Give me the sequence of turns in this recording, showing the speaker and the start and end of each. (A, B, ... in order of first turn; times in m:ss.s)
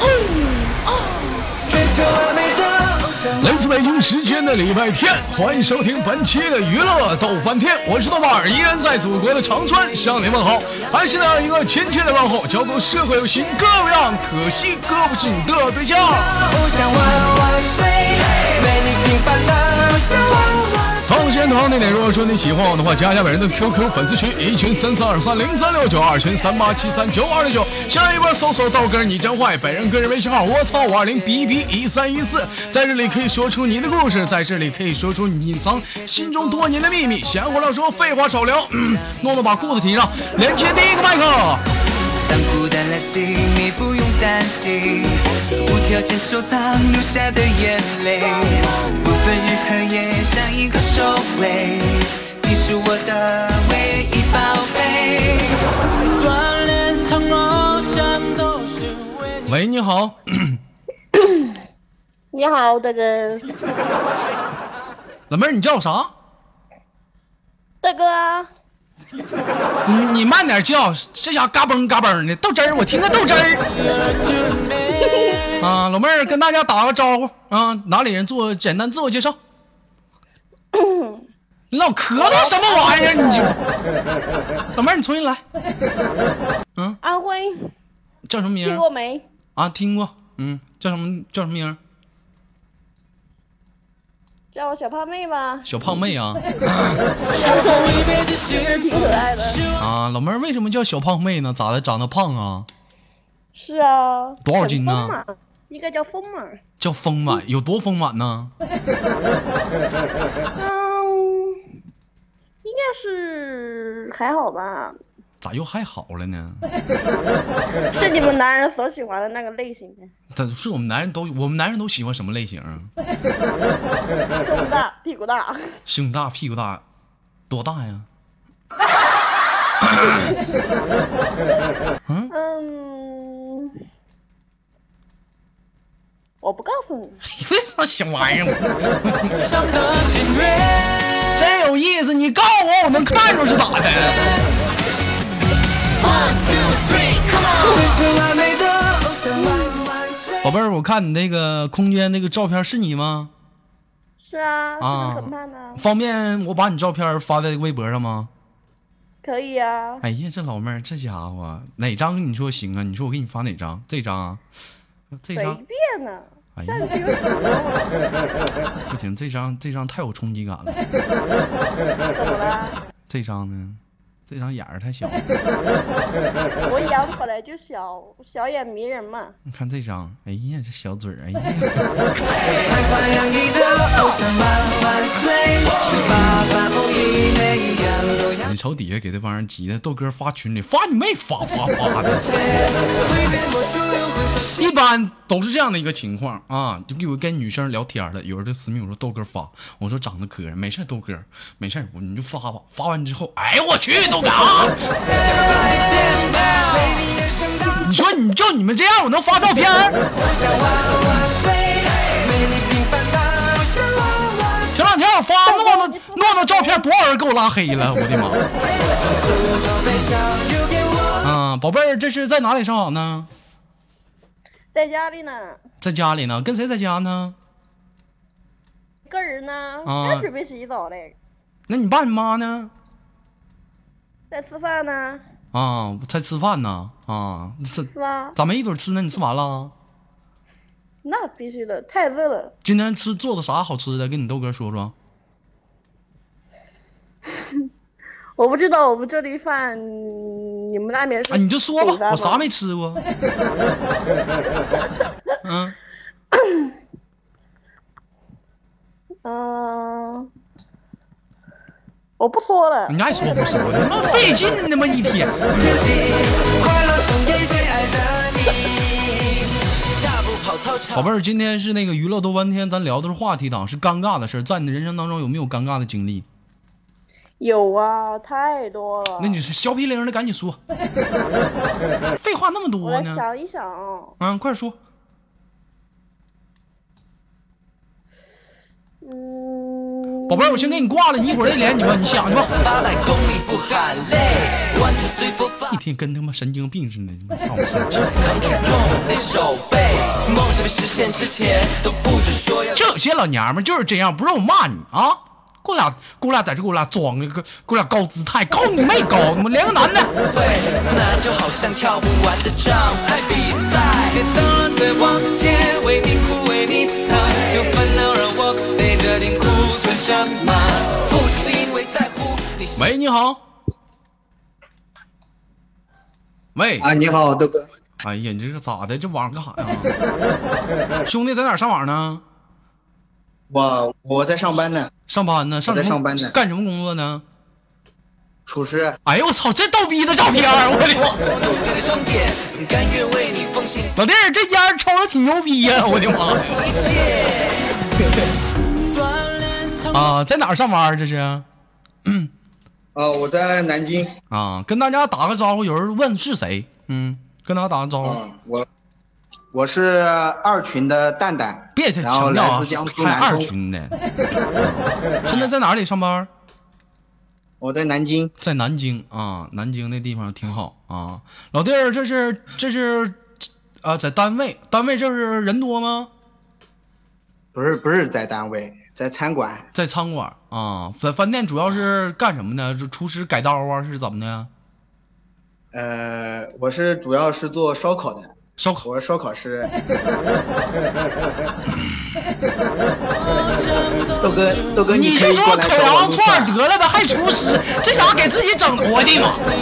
0:01.7-0:03.2 A
0:03.3-0:16.5 B
0:16.6-0:21.0 A
0:21.0-0:41.6 B
0:42.2-0:55.6 A
0:56.2-0:59.3 A
0:59.4-1:00.6 B
1:02.3-1:03.5 C
1:05.3-1:06.1 B
1:07.8-1:08.5 C
1:09.8-1:13.7 B
1:14.1-1:15.2 A
1:15.6-1:19.4 B
1:20.7-1:21.2 C
1:21.7-1:23.6 B
1:22.2-1:23.6 C
1:24.8-1:25.4 B
1:27.0-1:27.7 C
1:28.2-1:28.8 B
1:28.6-1:29.2 C
1:29.6-1:31.8 B
1:34.5-1:35.7 C
1:35.6-1:37.0 B
1:37.3-1:39.6 C
1:39.8-1:42.7 B
1:43.5-1:46.6 C
1:44.4-1:45.2 B
1:46.8-1:48.5 B
1:50.5-1:51.6 C
1:52.6-1:55.0 C
1:55.4-1:56.6 B
1:57.9-2:00.1 C
2:00.3-2:02.9 B
2:04.4-2:05.8 C
2:05.8-2:06.8 B
2:07.5-2:08.1 B
2:09.9-2:10.2 B
2:12.1-2:12.3 B
2:12.3-2:13.8 C
2:16.4-2:17.2 C
2:17.2-2:19.9 B
2:19.7-2:21.2 A
2:21.3-2:24.4 B
2:26.3-2:30.3 A
2:29.4-2:29.8 C
2:30.4-2:33.3 B
2:34.2-2:35.8 C
2:34.8-2:38.3 B
2:39.2-2:40.0 C
2:40.0-2:44.4 B
2:45.1-2:45.6 B
2:45.3-2:48.0 C
2:46.6-2:46.9 B
2:48.9-2:50.8 B
2:52.1-2:52.8 C
2:53.1-2:55.2 B
2:56.6-2:59.4 C
2:59.4-3:02.1 B
3:02.7-3:08.3 A
3:03.6-3:04.3 C
3:08.4-3:12.4 B
3:12.8-3:14.5 A
3:14.6-3:24.9 B
3:25.2-3:27.8 A
3:27.7-3:30.0 B
3:30.2-3:34.7 A
3:31.0-3:31.4 B
3:34.7-3:38.4 B
3:35.4-3:36.8 C
3:39.2-3:41.2 A
3:41.2-3:43.3 B
3:44.7-3:45.6 C
3:45.8-3:47.4 B
3:49.1-3:51.2 C
3:49.8-3:50.3 B
3:51.7-3:52.7 B
3:54.3-3:55.2 C
3:55.5-3:59.7 B
3:57.8-3:58.4 C
4:01.0-4:02.5 C
4:02.6-4:04.9 B
4:08.4-4:12.5 C
4:11.3-4:13.0 B
4:15.4-4:15.8 B
4:16.3-4:16.7 C
4:19.2-4:20.3 C
4:22.2-4:24.3 C
4:22.9-4:25.8 B
4:26.0-4:31.0 A
4:30.9-4:36.3 B
4:37.4-4:39.4 C
4:39.2-4:40.6 B
4:42.2-4:43.2 B
4:42.8-4:44.2 C
4:44.2-4:44.8 B
4:49.0-4:50.9 C
4:50.3-4:52.5 B
4:52.7-4:55.7 A
4:55.7-4:58.2 B
4:58.2-5:02.7 A
5:02.7-5:10.1 B
5:10.3-5:22.8 A
5:22.8-5:23.4 B
5:26.5-5:26.9 B
5:26.8-5:27.6 D
5:28.0-5:29.9 B
5:31.0-5:32.2 B
5:33.5-5:34.9 D
5:35.1-5:37.2 B
5:35.7-5:36.4 D
5:38.4-5:39.0 D
5:39.0-5:41.3 B
5:41.4-5:43.9 A
5:43.9-5:46.8 B
5:46.8-5:47.7 A
5:49.2-5:49.8 A
5:49.9-5:51.4 B
5:52.0-5:52.3 B
5:52.9-5:54.1 D
5:54.3-5:58.2 B
5:58.0-5:58.7 D
5:59.5-6:03.5 D
6:01.7-6:04.0 B
6:04.6-6:06.3 B
6:07.6-6:08.3 D
6:08.4-6:13.2 B
6:13.8-6:16.1 B
6:17.5-6:19.7 D
6:19.7-6:24.5 B
6:25.7-6:29.7 D
6:28.6-6:28.9 B
6:33.5-6:34.1 A
6:34.2-6:36.6 D
6:34.9-6:39.5 B